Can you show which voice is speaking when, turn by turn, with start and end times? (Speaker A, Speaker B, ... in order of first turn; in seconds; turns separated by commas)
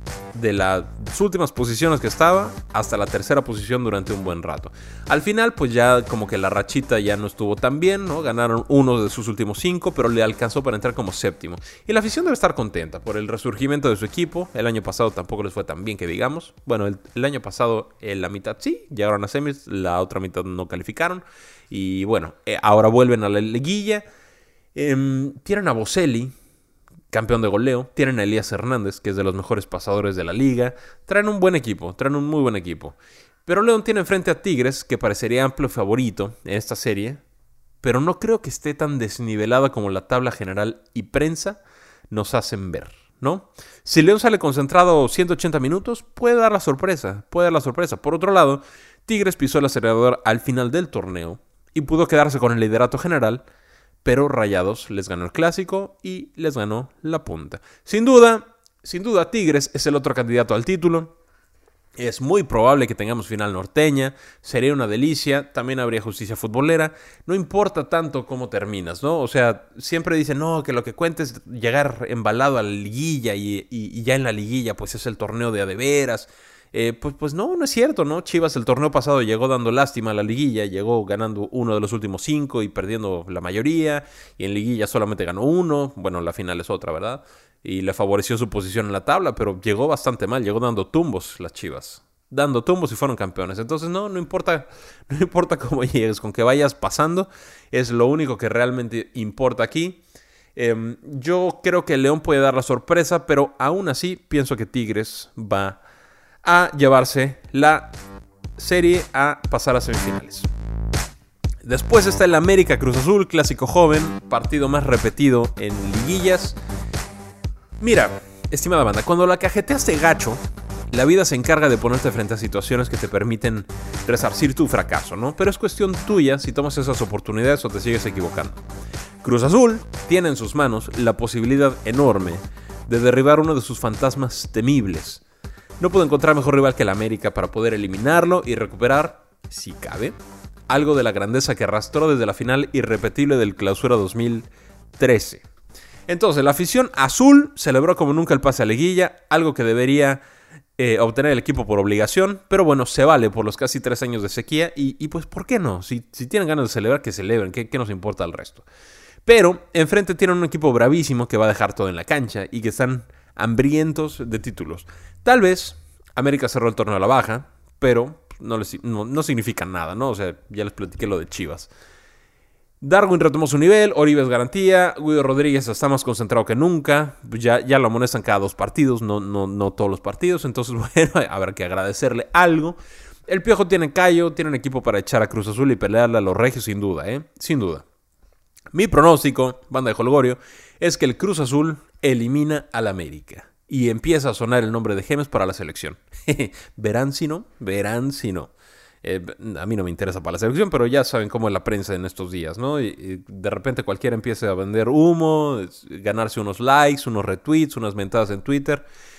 Speaker A: 0.3-24.0, Speaker A: 24.8-26.3, Speaker A: 27.1-37.2, Speaker A: 37.8-53.4, Speaker A: 54.0-61.1, Speaker A: 62.0-100.0, Speaker A: 100.5-105.8, Speaker A: 106.4-107.9, Speaker A: 108.6-110.5, Speaker A: 111.6-116.6, Speaker A: 117.8-128.6, Speaker A: 129.2-135.2, Speaker A: 135.8-140.2, Speaker A: 140.7-145.4, Speaker A: 146.1-150.2, Speaker A: 150.8-158.7, Speaker A: 159.3-171.7, Speaker A: 172.8-187.8, Speaker A: 188.7-198.5, Speaker A: 199.0-208.9